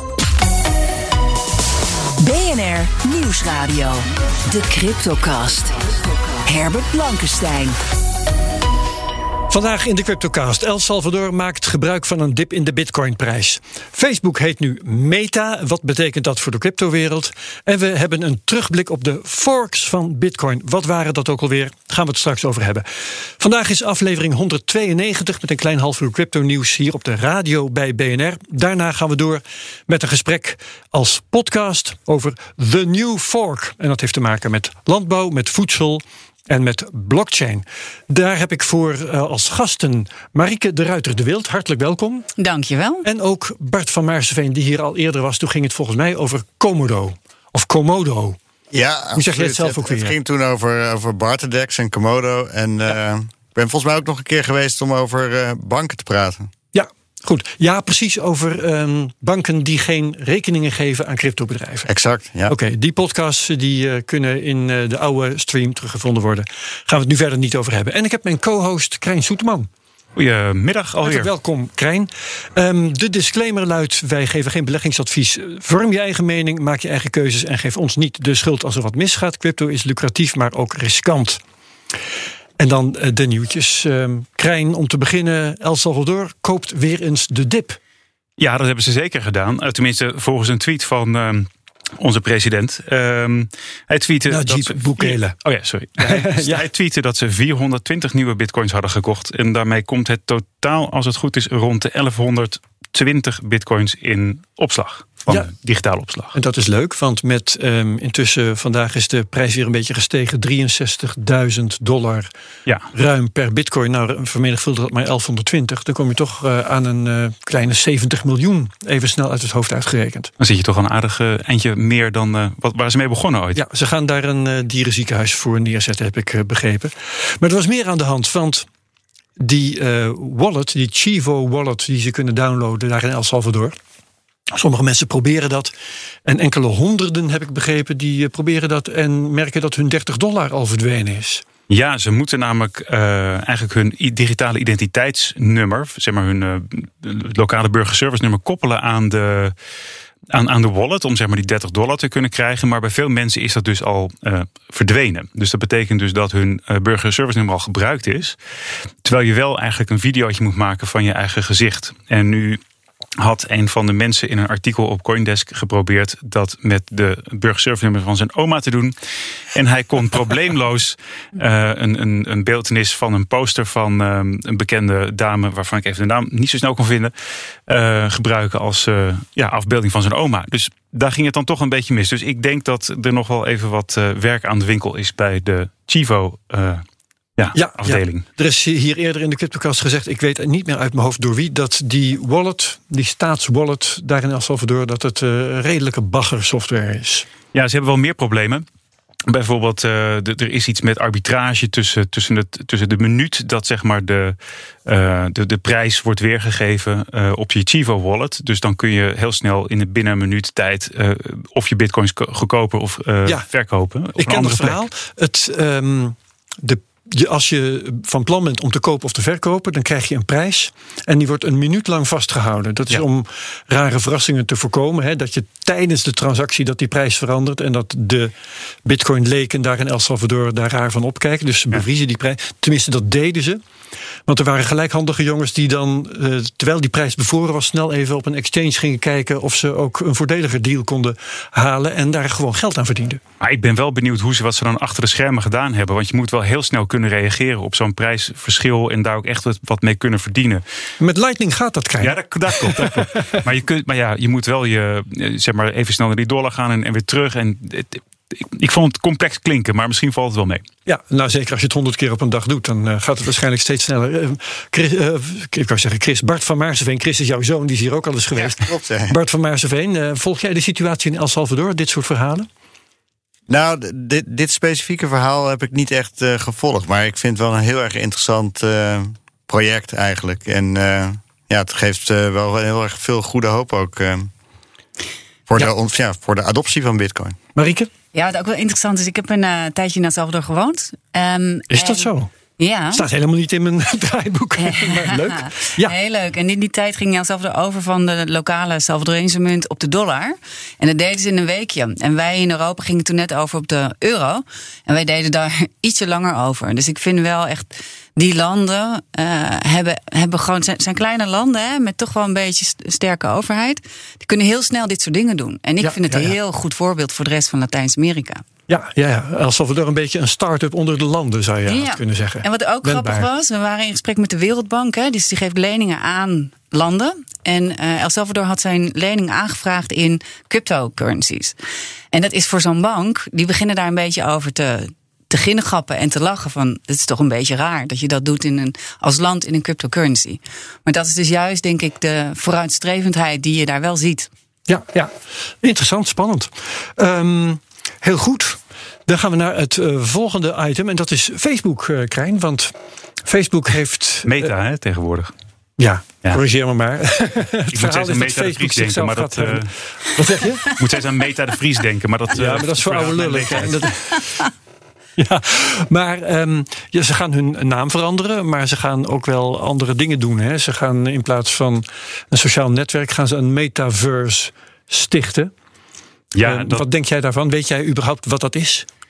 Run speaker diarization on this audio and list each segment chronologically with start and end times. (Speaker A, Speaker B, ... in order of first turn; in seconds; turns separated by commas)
Speaker A: 2.2-7.8, Speaker B: 9.5-42.3, Speaker C: 42.4-43.1, Speaker B: 43.0-48.4, Speaker D: 48.7-56.5, Speaker B: 49.1-50.1, Speaker B: 56.7-61.9, Speaker D: 61.9-62.5, Speaker B: 62.5-69.7, Speaker E: 70.2-71.3, Speaker B: 71.0-81.4, Speaker B: 82.6-87.8, Speaker E: 88.4-106.3, Speaker B: 94.3-95.3, Speaker B: 96.0-96.6, Speaker B: 106.3-112.3, Speaker B: 112.9-120.3, Speaker E: 120.4-123.6, Speaker B: 123.5-128.7, Speaker B: 129.4-133.8, Speaker B: 134.5-135.7, Speaker B: 136.2-141.4, Speaker E: 141.7-149.5, Speaker E: 150.3-158.4, Speaker E: 159.0-162.6, Speaker E: 163.2-168.9, Speaker E: 169.5-177.1, Speaker E: 177.7-186.8, Speaker E: 187.4-188.2, Speaker B: 187.5-197.2, Speaker E: 197.5-198.6, Speaker E: 199.3-214.8, Speaker B: 214.2-228.3, Speaker B: 228.8-233.6, Speaker B: 234.3-243.2, Speaker E: 243.4-250.6, Speaker B: 251.0-253.4, Speaker E: 252.0-260.6, Speaker B: 260.9-272.5, Speaker D: 268.5-269.2, Speaker D: 273.5-284.3, Speaker D: 285.5-287.4, Speaker B: 287.5-287.9, Speaker C: 288.1-293.0, Speaker B: 291.7-292.3, Speaker B: 292.9-295.9, Speaker C: 294.6-318.4, Speaker B: 315.8-316.3, Speaker B: 318.7-323.3, Speaker C: 321.6-331.6, Speaker C: 332.1-344.3, Speaker B: 344.7-352.7, Speaker B: 353.2-354.5, Speaker E: 354.2-355.3, Speaker B: 355.8-360.8, Speaker E: 357.7-359.7, Speaker E: 360.7-363.9, Speaker B: 362.3-364.3, Speaker B: 365.2-375.5, Speaker E: 376.3-376.8, Speaker B: 376.4-378.9